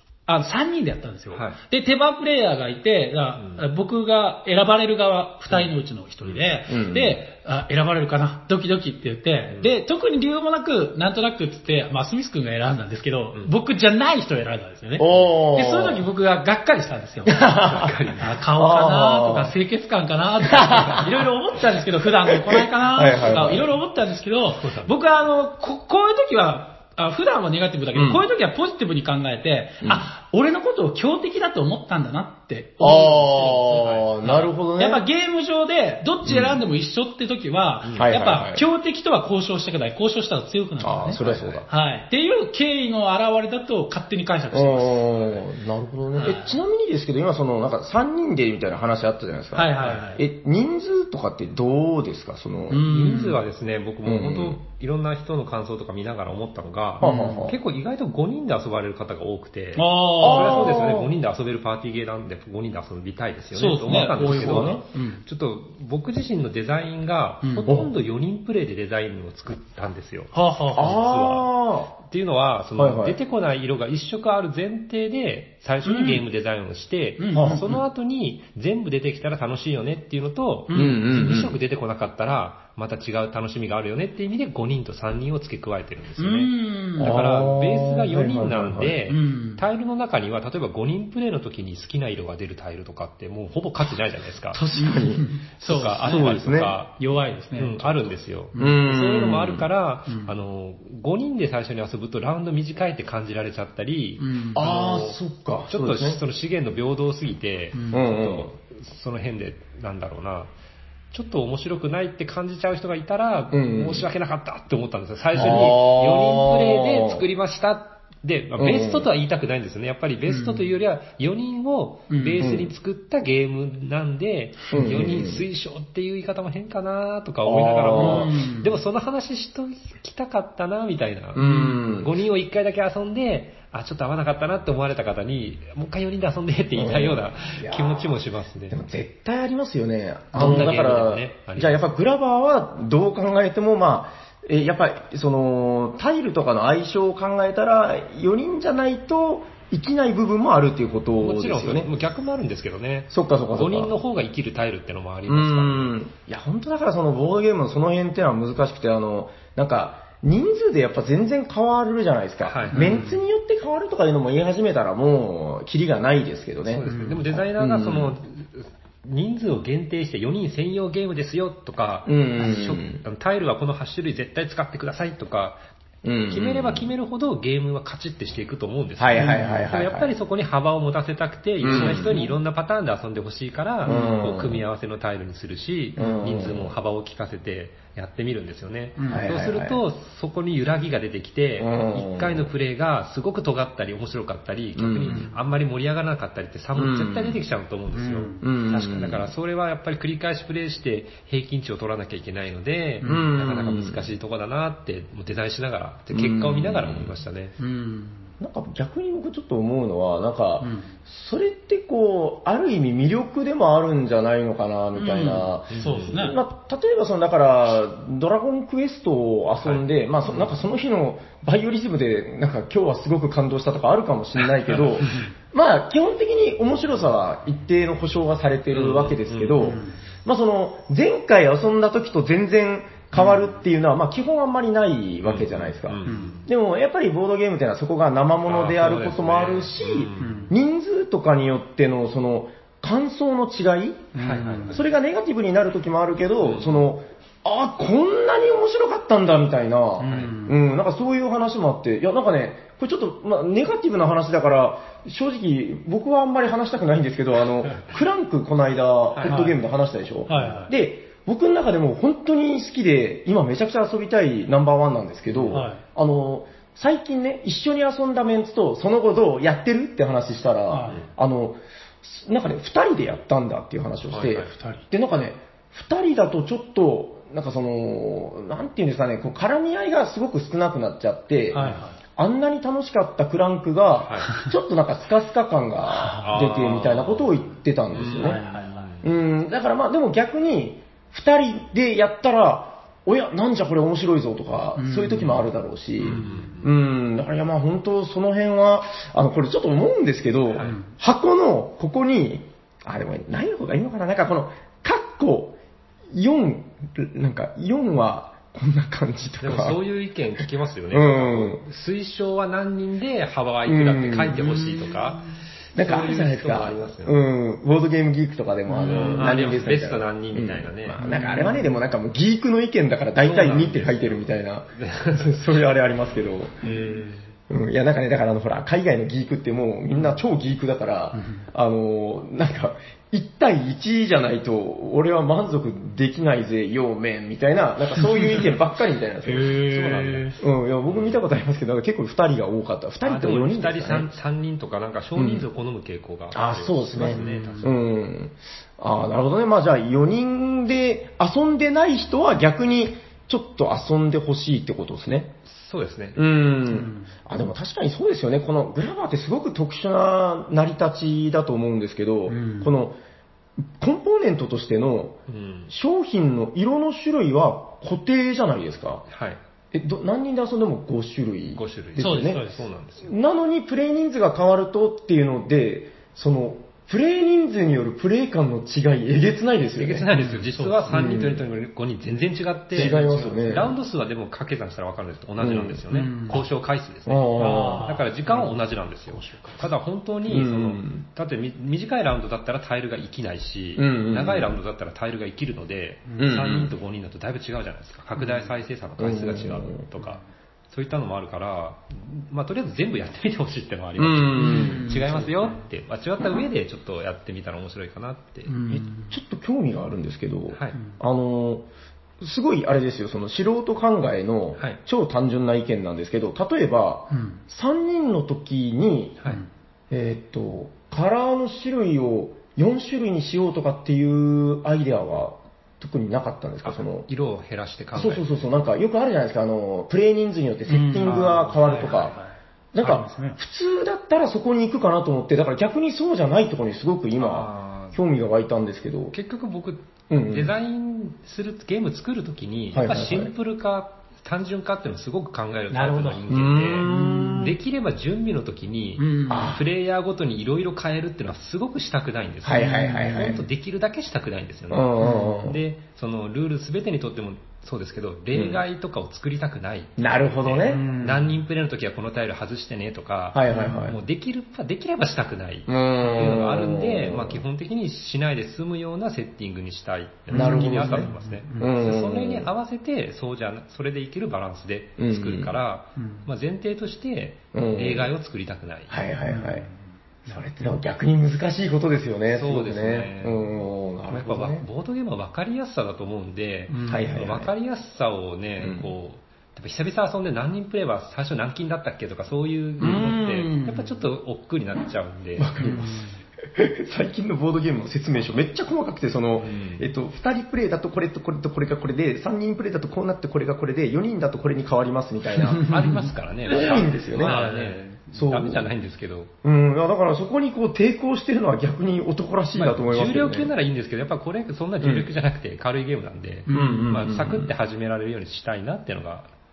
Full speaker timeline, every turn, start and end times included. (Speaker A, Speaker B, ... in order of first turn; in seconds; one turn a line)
Speaker A: 0.3-45.4
Speaker B: 1.3-1.6
Speaker B: 3.4-3.6
Speaker C: 6.7-7.2
Speaker C: 15.0-16.0
Speaker C: 17.3-17.9
Speaker B: 17.6-18.4
Speaker C: 18.6-19.5
Speaker C: 20.5-21.3
Speaker C: 22.3-23.7
Speaker B: 24.5-24.9
Speaker C: 27.9-28.2
Speaker C: 29.8-30.1
Speaker C: 32.8-35.0
Speaker C: 36.3-36.6
Speaker B: 37.9-38.1
Speaker C: 38.0-38.6
Speaker C: 40.8-41.6
Speaker B: 41.2-41.7
Speaker C: 44.5-52.9
Speaker A: 46.1-46.6
Speaker A: 49.5-50.2
Speaker A: 52.7-53.4
Speaker B: 52.9-94.6
Speaker C: 54.0-54.6
Speaker C: 57.0-57.6
Speaker A: 57.0-57.5
Speaker A: 59.8-60.8
Speaker C: 60.2-61.1
Speaker A: 63.5-65.2
Speaker C: 63.9-64.8
Speaker A: 67.4-67.8
Speaker C: 67.7-67.9
Speaker A: 70.3-71.1
Speaker C: 70.8-71.9
Speaker C: 72.8-73.2
Speaker A: 75.8-76.2
Speaker A: 77.2-77.7
Speaker C: 77.3-77.8
Speaker A: 80.7-81.0
Speaker C: 80.7-81.6
Speaker A: 86.2-87.2
Speaker C: 87.0-89.0
Speaker A: 89.1-89.6
Speaker C: 94.5-95.3
Speaker A: 94.8-96.4
Speaker B: 95.6-97.0
Speaker C: 96.0-96.8
Speaker A: 97.0-98.8
Speaker B: 97.6-105.2
Speaker C: 98.6-99.7
Speaker A: 104.2-104.6
Speaker C: 104.5-106.2
Speaker B: 105.7-110.5
Speaker A: 107.7-108.0
Speaker C: 107.9-108.5
Speaker B: 111.1-138.8
Speaker C: 113.5-114.1
Speaker C: 115.4-117.2
Speaker C: 118.6-119.1
Speaker A: 120.3-120.6
Speaker A: 122.1-122.4
Speaker C: 122.4-122.7
Speaker C: 124.7-125.5
Speaker C: 127.5-128.3
Speaker A: 128.0-128.7
Speaker C: 131.3-132.1
Speaker A: 131.4-131.8
Speaker C: 136.8-138.2
Speaker C: 138.7-151.9
Speaker B: 140.3-141.8
Speaker B: 151.2-156.0
Speaker C: 153.1-153.9
Speaker C: 155.3-168.2
Speaker B: 162.4-162.9
Speaker A: 162.7-163.2
Speaker B: 166.7-175.6
Speaker A: 166.9-167.2
Speaker C: 172.1-173.0
Speaker C: 176.0-176.9
Speaker B: 176.3-207.6
Speaker C: 179.0-180.1
Speaker A: 179.2-179.7
Speaker C: 181.6-182.2
Speaker A: 181.7-182.3
Speaker C: 183.9-184.7
Speaker A: 183.9-184.2
Speaker C: 186.0-186.7
Speaker A: 189.0-189.3
Speaker C: 189.1-189.8
Speaker C: 191.6-192.5
Speaker C: 194.8-195.2
Speaker A: 195.1-195.3
Speaker C: 196.8-197.4
Speaker A: 197.9-198.4
Speaker C: 198.4-199.3
Speaker A: 203.0-203.3
Speaker C: 203.0-204.1
Speaker C: 206.1-207.2
Speaker A: 207.6-208.3
Speaker C: 208.4-244.1
Speaker A: 210.6-210.9
Speaker A: 215.0-216.4
Speaker B: 215.7-216.2
Speaker B: 219.6-220.5
Speaker B: 228.7-229.8
Speaker A: 229.6-230.0
Speaker A: 233.2-233.6
Speaker B: 235.3-236.5
Speaker A: 236.1-236.4
Speaker B: 238.5-240.5
Speaker A: 240.2-240.5
Speaker A: 244.1-244.8
Speaker B: 244.2-244.8
Speaker C: 244.7-288.4
Speaker B: 246.4-246.9
Speaker A: 250.0-250.6
Speaker B: 259.1-259.4
Speaker A: 259.2-259.6
Speaker A: 260.3-260.7
Speaker B: 265.3-265.7
Speaker A: 265.5-265.8
Speaker A: 270.7-271.1
Speaker B: 274.1-274.5
Speaker A: 274.5-274.9
Speaker A: 281.5-282.0
Speaker B: 284.0-284.4
Speaker A: 285.9-286.4
Speaker B: 286.2-289.1
Speaker A: 288.2-288.9
Speaker C: 289.0-305.6
Speaker A: 294.8-295.5
Speaker B: 296.0-296.7
Speaker A: 296.1-296.5
Speaker B: 300.5-300.8
Speaker A: 300.6-300.9
Speaker C: 306.1-309.8
Speaker B: 309.4-317.2
Speaker C: 310.9-311.6
Speaker C: 313.7-314.6
Speaker C: 315.8-326.7
Speaker A: 318.7-319.4
Speaker B: 318.8-321.0
Speaker A: 321.0-321.7
Speaker B: 323.2-325.5
Speaker A: 326.6-327.0
Speaker B: 326.7-327.2
Speaker C: 327.5-339.6
Speaker A: 331.1-331.4
Speaker A: 338.0-338.4
Speaker A: 339.2-340.4
Speaker B: 339.5-340.3
Speaker C: 340.4-344.1
Speaker B: 340.9-341.2
Speaker B: 343.0-347.8
Speaker C: 345.2-345.4
Speaker C: 346.3-355.3
Speaker A: 347.0-347.8
Speaker B: 355.5-356.2
Speaker C: 356.2-363.0
Speaker A: 356.7-357.1
Speaker A: 362.3-362.7
Speaker C: 363.8-365.2
Speaker B: 365.3-365.7
Speaker C: 365.7-369.1
Speaker B: 369.1-369.4
Speaker C: 369.7-372.4
Speaker B: 371.6-373.1
Speaker A: 372.0-372.6
Speaker C: 373.0-380.1
Speaker B: 379.8-408.5
Speaker A: 380.1-380.9
Speaker C: 380.9-381.4
Speaker C: 382.7-383.8
Speaker A: 382.8-383.5
Speaker C: 385.4-385.8
Speaker A: 385.9-386.4
Speaker C: 387.1-387.9
Speaker A: 387.4-389.6
Speaker C: 390.3-391.1
Speaker C: 393.8-394.6
Speaker A: 396.1-396.3
Speaker C: 396.2-396.7
Speaker A: 398.2-398.5
Speaker C: 399.0-399.9
Speaker C: 404.0-405.2
Speaker A: 404.4-405.5
Speaker A: 408.5-409.1
Speaker C: 408.7-411.7
Speaker B: 410.5-410.8
Speaker C: 412.2-419.2
Speaker A: 417.1-417.4
Speaker C: 419.9-427.1
Speaker B: 426.6-428.3
Speaker C: 427.9-432.1
Speaker A: 430.7-433.4
Speaker B: 431.7-432.0
Speaker C: 432.7-439.1
Speaker B: 437.2-438.0
Speaker B: 439.1-479.0
Speaker C: 440.1-440.5
Speaker C: 442.7-443.3
Speaker A: 445.7-446.2
Speaker C: 446.3-447.6
Speaker A: 446.8-447.5
Speaker A: 449.0-449.6
Speaker C: 449.3-449.6
Speaker C: 452.4-453.5
Speaker A: 452.6-453.2
Speaker C: 454.7-455.6
Speaker A: 455.0-455.4
Speaker C: 458.3-458.6
Speaker C: 460.0-460.8
Speaker A: 460.7-461.3
Speaker C: 463.3-464.0
Speaker A: 463.5-463.8
Speaker C: 465.7-467.4
Speaker C: 470.3-472.5
Speaker A: 470.3-471.7
Speaker C: 475.0-475.6
Speaker A: 476.0-476.2
Speaker C: 477.5-478.1
Speaker C: 478.9-479.7
Speaker A: 479.2-479.8
Speaker C: 480.3-484.6
Speaker B: 482.3-483.5
Speaker B: 484.1-495.5
Speaker A: 486.7-487.2
Speaker C: 486.9-487.5
Speaker C: 488.6-488.9
Speaker C: 492.8-493.6
Speaker A: 492.9-493.9
Speaker C: 495.4-496.0
Speaker A: 495.6-496.2
Speaker C: 496.6-505.6
Speaker B: 499.4-499.9
Speaker A: 505.5-506.1
Speaker B: 505.6-509.3
Speaker C: 506.5-507.4
Speaker A: 507.2-507.8
Speaker C: 508.1-508.7
Speaker C: 509.4-513.5
Speaker B: 512.5-519.3
Speaker C: 514.8-515.1
Speaker A: 516.5-517.1
Speaker C: 516.5-517.5